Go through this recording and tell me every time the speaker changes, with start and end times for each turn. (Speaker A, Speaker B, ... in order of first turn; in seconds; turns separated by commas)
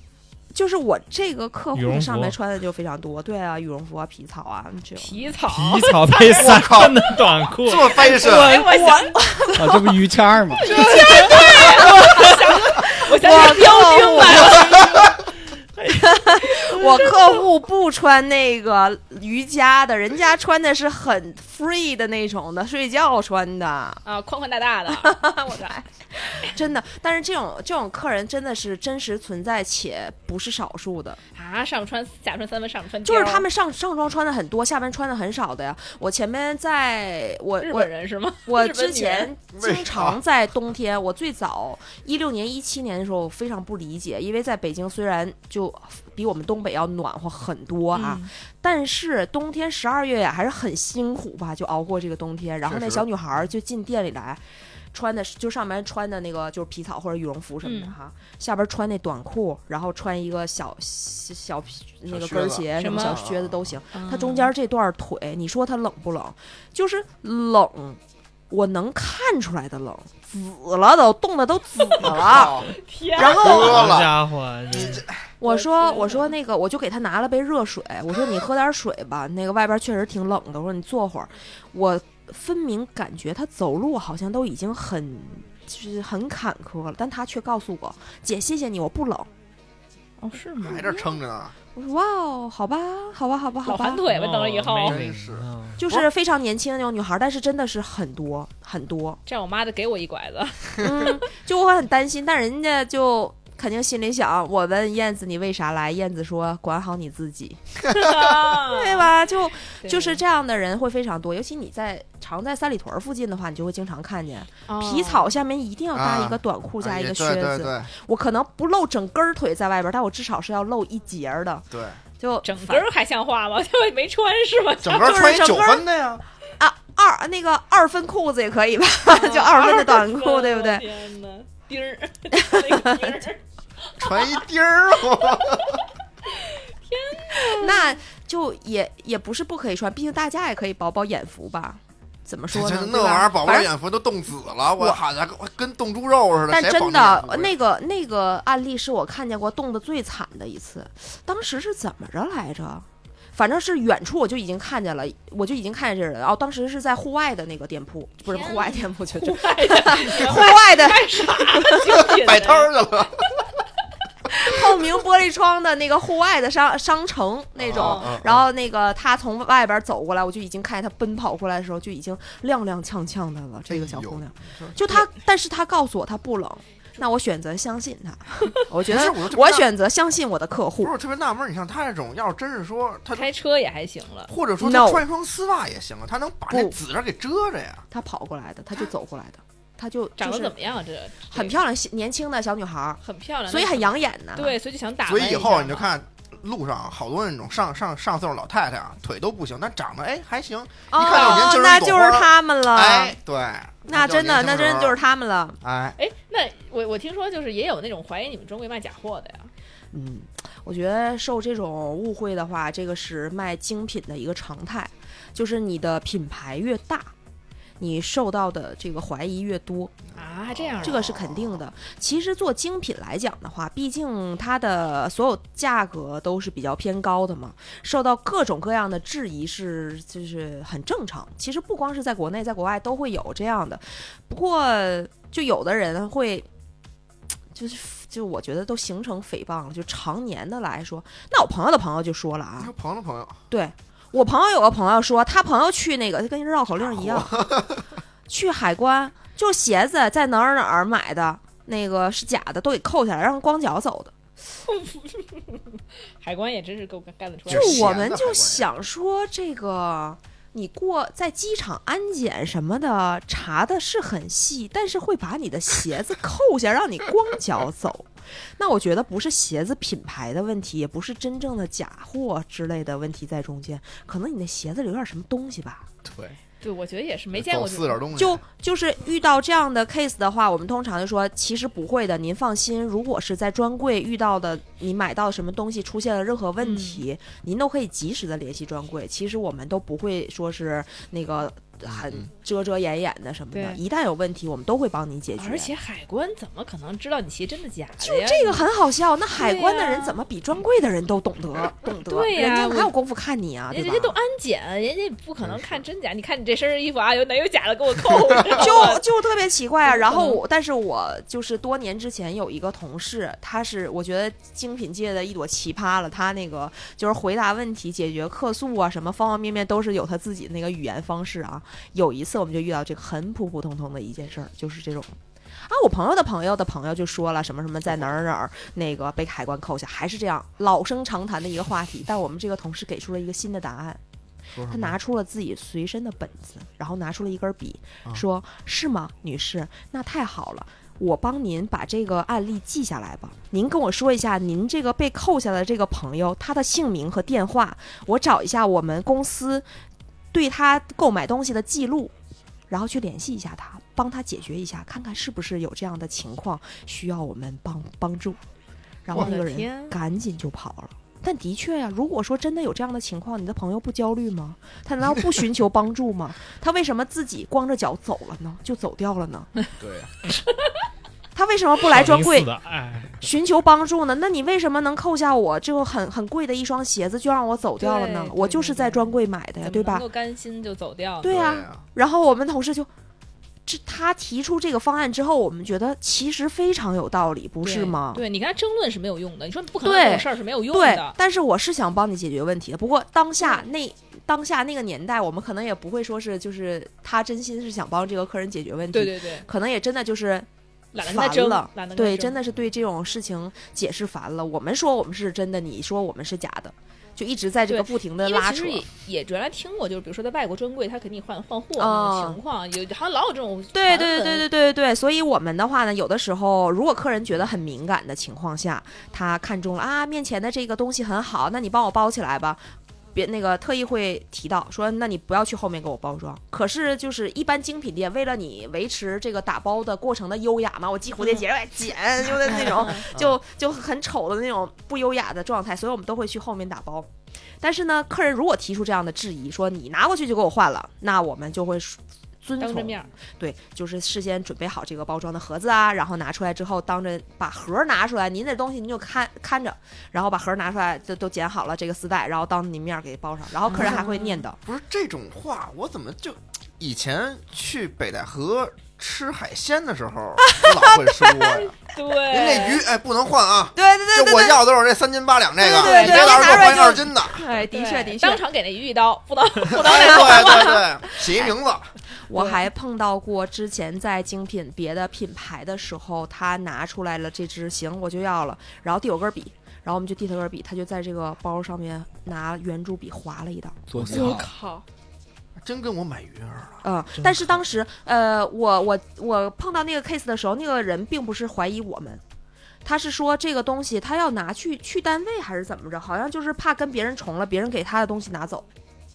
Speaker A: 0.5-5.1, Speaker B: 1.7-2.4, Speaker C: 5.0-6.5, Speaker B: 5.5-9.0, Speaker D: 6.3-8.5, Speaker C: 8.0-9.2, Speaker A: 8.4-10.0, Speaker E: 9.5-10.8, Speaker C: 10.5-15.2, Speaker A: 10.6-15.0, Speaker A: 15.8-24.0, Speaker C: 16.3-17.4, Speaker C: 24.0-25.7, Speaker A: 24.9-31.2, Speaker C: 31.3-33.5, Speaker A: 33.0-37.9, Speaker C: 37.6-39.3, Speaker A: 38.4-68.0, Speaker D: 39.5-40.2, Speaker C: 47.9-48.3, Speaker D: 52.6-53.0, Speaker C: 57.6-58.0, Speaker D: 62.1-63.7, Speaker C: 62.8-63.2, Speaker C: 63.9-64.5, Speaker A: 68.5-74.0, Speaker C: 71.8-73.7, Speaker D: 72.0-74.2, Speaker B: 73.4-75.0, Speaker D: 74.7-75.2, Speaker A: 75.4-89.3, Speaker C: 75.4-76.3, Speaker C: 90.2-91.1, Speaker D: 90.6-91.5, Speaker A: 91.7-94.0, Speaker C: 93.6-95.0, Speaker B: 94.0-95.8, Speaker D: 94.8-96.0, Speaker A: 95.8-99.2, Speaker C: 99.2-101.2, Speaker A: 100.8-107.7, Speaker C: 107.9-109.1, Speaker A: 108.5-122.9, Speaker C: 109.8-110.2, Speaker C: 114.7-115.3, Speaker D: 115.9-117.9, Speaker D: 121.7-122.0, Speaker C: 122.4-125.2, Speaker D: 124.8-126.2, Speaker A: 125.0-125.9, Speaker A: 126.6-130.8, Speaker C: 129.1-134.4, Speaker A: 132.3-133.1, Speaker D: 134.0-135.8, Speaker C: 136.2-138.0, Speaker A: 137.3-143.7, Speaker D: 142.5-147.5, Speaker A: 144.8-145.0, Speaker A: 146.5-162.0, Speaker C: 158.2-162.7, Speaker D: 161.9-163.2, Speaker A: 164.3-180.9, Speaker D: 167.6-168.5, Speaker C: 167.8-168.1, Speaker D: 173.7-174.8, Speaker D: 178.8-179.7, Speaker D: 180.8-183.3, Speaker C: 183.1-184.3, Speaker D: 184.3-187.8, Speaker A: 184.6-185.0, Speaker A: 186.5-186.8, Speaker A: 187.9-190.5, Speaker C: 190.2-191.6, Speaker A: 191.3-194.6, Speaker C: 193.0-195.9, Speaker D: 195.0-205.0, Speaker A: 200.9-203.2, Speaker C: 201.0-201.5, Speaker A: 203.8-205.6, Speaker D: 205.6-206.0, Speaker C: 206.0-209.5, Speaker A: 209.9-217.1, Speaker A: 217.8-219.9, Speaker C: 220.1-221.1, Speaker D: 220.2-221.6, Speaker A: 220.8-236.5, Speaker A: 237.5-242.7, Speaker D: 242.6-243.4, Speaker A: 243.5-247.4, Speaker D: 246.8-247.8, Speaker A: 248.3-254.1, Speaker C: 254.5-258.0, Speaker D: 257.5-258.6, Speaker A: 257.5-275.9, Speaker D: 276.0-276.4, Speaker C: 276.6-278.0, Speaker D: 277.3-278.4, Speaker A: 278.1-295.7, Speaker C: 286.6-287.0, Speaker C: 293.5-293.8, Speaker C: 295.4-298.6, Speaker A: 298.0-304.1, Speaker C: 299.3-300.2, Speaker C: 302.0-302.9, Speaker C: 303.7-309.1, Speaker D: 305.4-305.8, Speaker A: 308.5-334.0, Speaker C: 309.9-310.4, Speaker D: 334.5-334.9, Speaker A: 334.7-349.6, Speaker A: 350.3-352.1, Speaker A: 352.7-358.4, Speaker A: 359.0-369.5, Speaker C: 359.1-360.0, Speaker D: 369.8-370.1, Speaker C: 370.5-370.7, Speaker A: 371.3-372.5, Speaker B: 371.8-373.3, Speaker A: 373.2-380.0, Speaker C: 377.8-381.4, Speaker A: 381.2-382.9, Speaker D: 381.2-381.8, Speaker A: 383.6-388.2, Speaker C: 387.6-391.2, Speaker A: 389.8-408.8, Speaker C: 398.9-399.5, Speaker C: 400.9-402.4, Speaker C: 407.7-414.5, Speaker A: 411.8-412.4, Speaker A: 413.7-422.6, Speaker A: 423.1-454.6, Speaker C: 432.5-433.1, Speaker C: 442.6-443.1, Speaker C: 453.6-454.4, Speaker D: 454.6-461.7, Speaker A: 460.5-461.4, Speaker C: 461.5-462.8, Speaker D: 462.3-467.4, Speaker A: 463.7-464.6, Speaker A: 465.6-468.4, Speaker C: 465.7-466.9, Speaker C: 467.7-470.9, Speaker D: 469.7-471.9, Speaker A: 469.8-471.6, Speaker A: 472.3-484.4, Speaker C: 472.3-472.6, Speaker E: 483.9-484.5, Speaker C: 484.1-484.8, Speaker D: 485.6-486.8, Speaker A: 486.8-492.2, Speaker A: 492.8-498.6